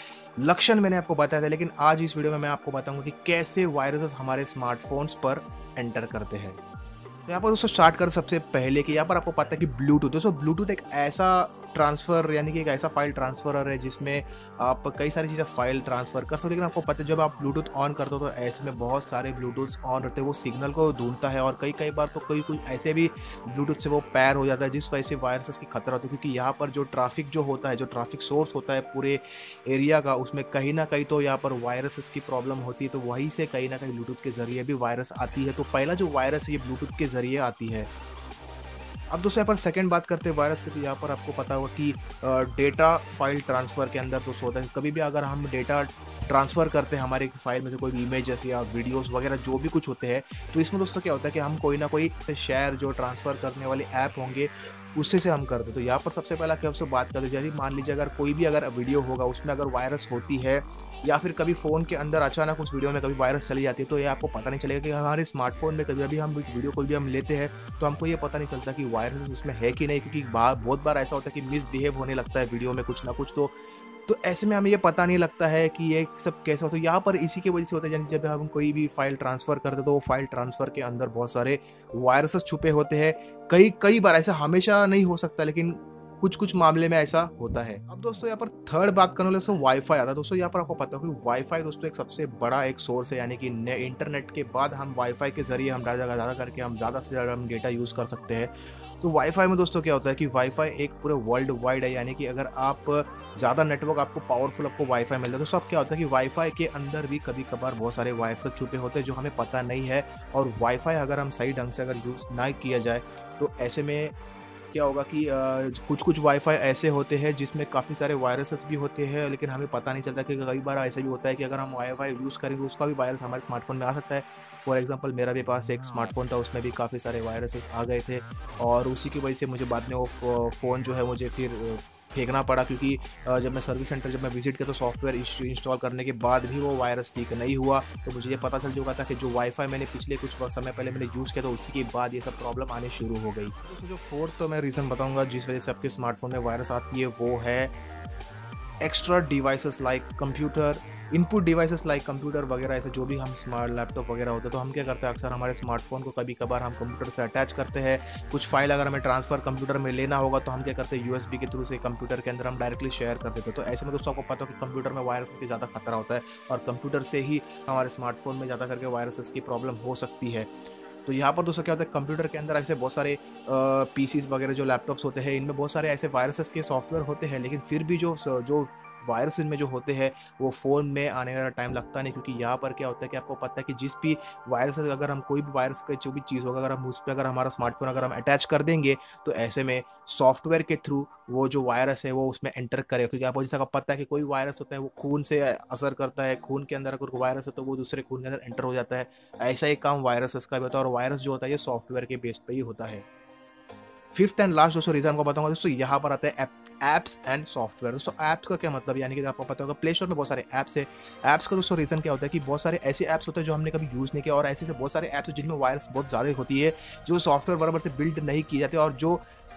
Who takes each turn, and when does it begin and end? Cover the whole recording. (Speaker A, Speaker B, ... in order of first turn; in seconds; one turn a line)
Speaker A: 0.4-6.6
Speaker A: 7.3-37.9
Speaker A: 39.1-73.5
Speaker A: 74.1-114.1
Speaker A: 114.7-147.7
Speaker A: 148.8-170.5
Speaker A: 171.0-203.0
Speaker A: 204.1-219.2